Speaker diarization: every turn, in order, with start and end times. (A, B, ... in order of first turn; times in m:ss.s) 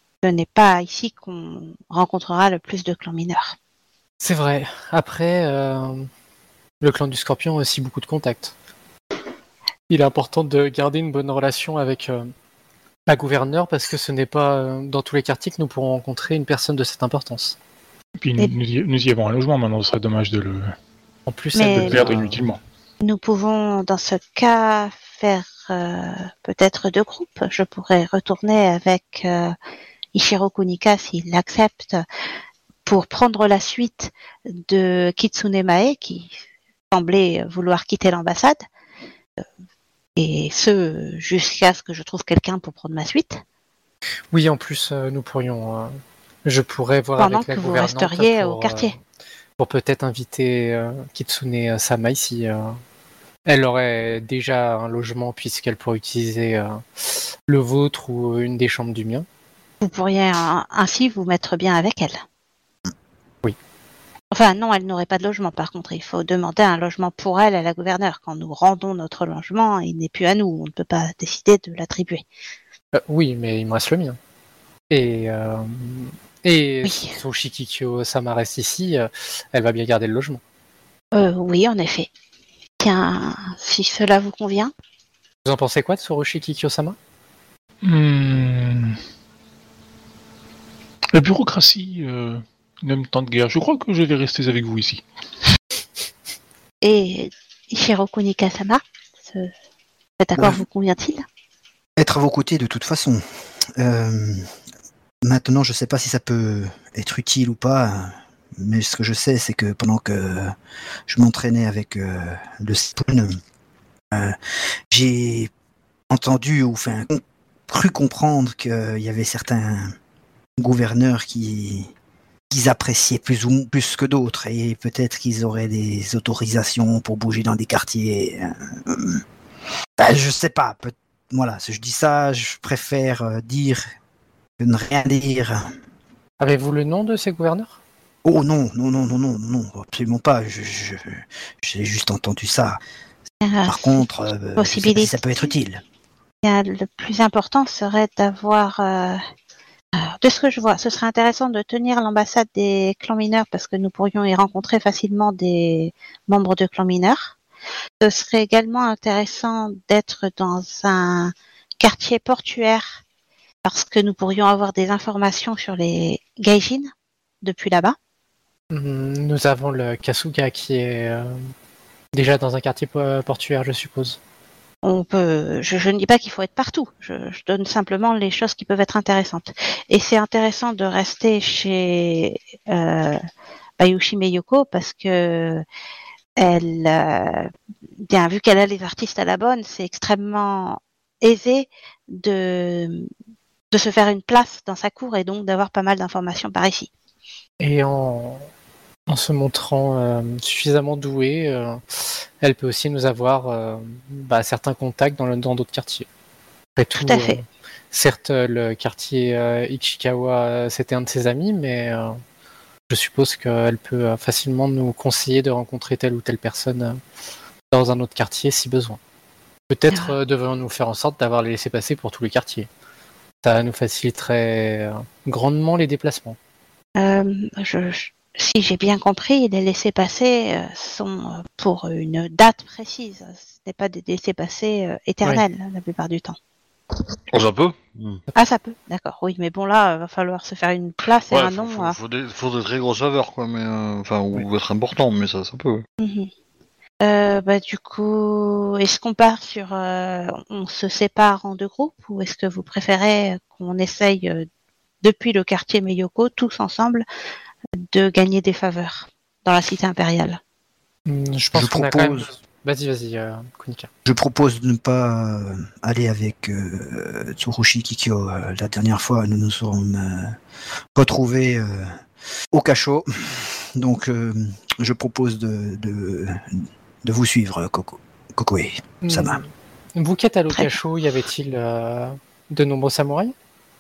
0:00.2-0:03.6 A
0:04.2-0:06.1 B
0:06.8-0:08.5 B
0:09.9-0:12.3 B
0:13.1-0:17.6 B
0:18.2-0:20.7 C
0:21.3-0:22.4 B
0:21.6-0:22.1 A
0:21.6-0:22.6 C
0:23.0-0:29.6 A
0:30.1-0:32.0 A
0:32.9-0:36.3 A
0:36.9-0:38.6 A
0:40.2-0:43.4 A
0:44.3-0:48.9 B
0:47.2-0:48.9 A
0:49.6-0:52.8 B
0:53.5-0:59.3 B
0:59.8-1:02.2 A
1:04.3-1:12.2 A
1:12.9-1:14.2 B
1:14.9-1:20.4 B
1:16.8-1:17.2 A
1:21.1-1:22.1 A
1:22.8-1:24.7 A
1:25.4-1:27.0 B
1:27.8-1:29.0 C
1:31.1-1:35.0 C
1:36.8-1:39.5 A
1:40.2-1:41.2 A
1:40.4-1:40.6 D
1:42.0-1:43.2 D
1:43.8-1:44.5 D
1:45.2-1:50.6 D
1:51.1-1:53.4 D
1:54.9-1:55.5 D
1:56.1-1:59.9 D
2:00.6-2:01.9 D
2:02.5-2:09.2 D
2:10.0-2:13.8 D
2:14.6-2:15.7 D
2:16.4-2:17.8 B
2:18.2-2:22.8 D
2:23.4-2:25.3 A
2:23.7-2:25.8 D
2:26.4-2:29.2 A
2:30.0-2:37.4 A
2:38.0-2:43.0 A
2:43.6-2:46.9 A
2:47.4-2:48.0 A
2:48.7-2:51.4 B
2:52.1-2:54.2 B
2:54.8-3:03.2 A
3:03.8-3:05.6 A
3:06.4-3:07.5 A
3:08.1-3:13.1 A
3:13.7-3:16.9 A
3:17.6-3:18.5 B
3:19.1-3:26.1 B
3:26.8-3:32.2 B
3:27.0-3:27.4 A
3:32.9-3:37.0 B
3:37.7-3:39.0 B
3:39.7-3:42.7 B
3:43.4-3:46.4 B
3:47.0-3:56.4 A
3:57.3-3:58.2 E
3:58.4-4:02.0 A
4:01.3-4:05.8 E
4:06.0-4:06.3 A
4:07.0-4:14.5 A
4:15.0-4:17.0 A
4:17.8-4:20.4 A
4:21.1-4:23.9 B
4:21.5-4:22.3 D
4:24.0-4:30.4 D
4:31.0-4:32.0 D
4:32.5-4:39.4 D
4:39.0-4:43.3 B